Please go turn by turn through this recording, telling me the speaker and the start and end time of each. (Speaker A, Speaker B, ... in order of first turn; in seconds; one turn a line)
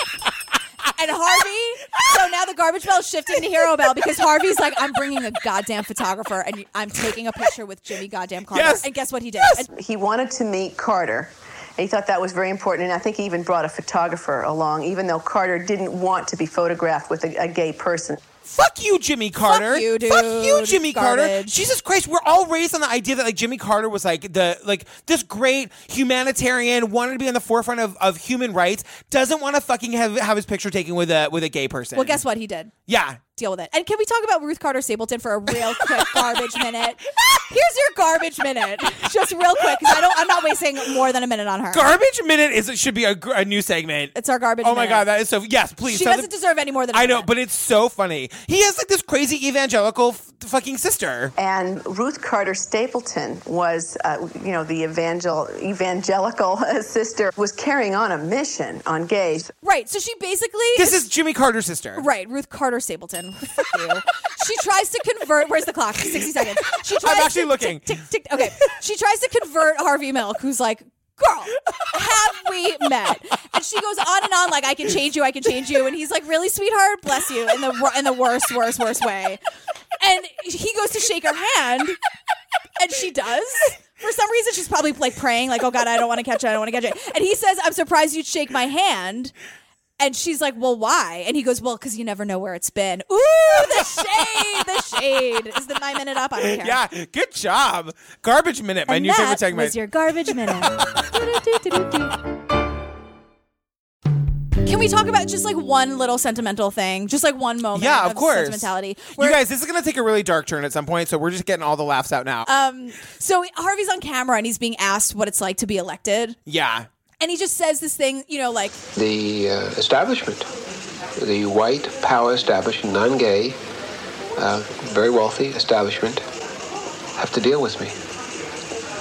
Speaker A: 0.9-9.7
Speaker B: 8.5-8.8
Speaker C: 9.7-18.2
Speaker B: 18.4-32.2
Speaker A: 19.4-21.6
Speaker A: 31.9-32.8
Speaker B: 32.9-33.2
Speaker A: 33.4-41.9
Speaker B: 41.7-46.3
Speaker A: 44.1-45.1
Speaker A: 45.9-47.3
Speaker B: 46.9-51.3
Speaker C: 51.4-59.5
Speaker A: 59.6-61.0
Speaker B: 60.8-62.0
Speaker A: 62.0-79.4
Speaker B: 67.0-67.9
Speaker A: 80.0-82.0
Speaker A: 82.8-89.3
Speaker A: 90.0-96.8
Speaker B: 96.4-99.8
Speaker A: 98.9-102.2
Speaker A: 104.7-109.4
Speaker B: 107.8-112.5
Speaker A: 112.5-116.4
Speaker B: 116.5-116.9
Speaker A: 117.2-118.8
Speaker D: 119.0-120.5
Speaker D: 121.2-123.6
Speaker D: 124.4-126.2
Speaker D: 127.2-128.0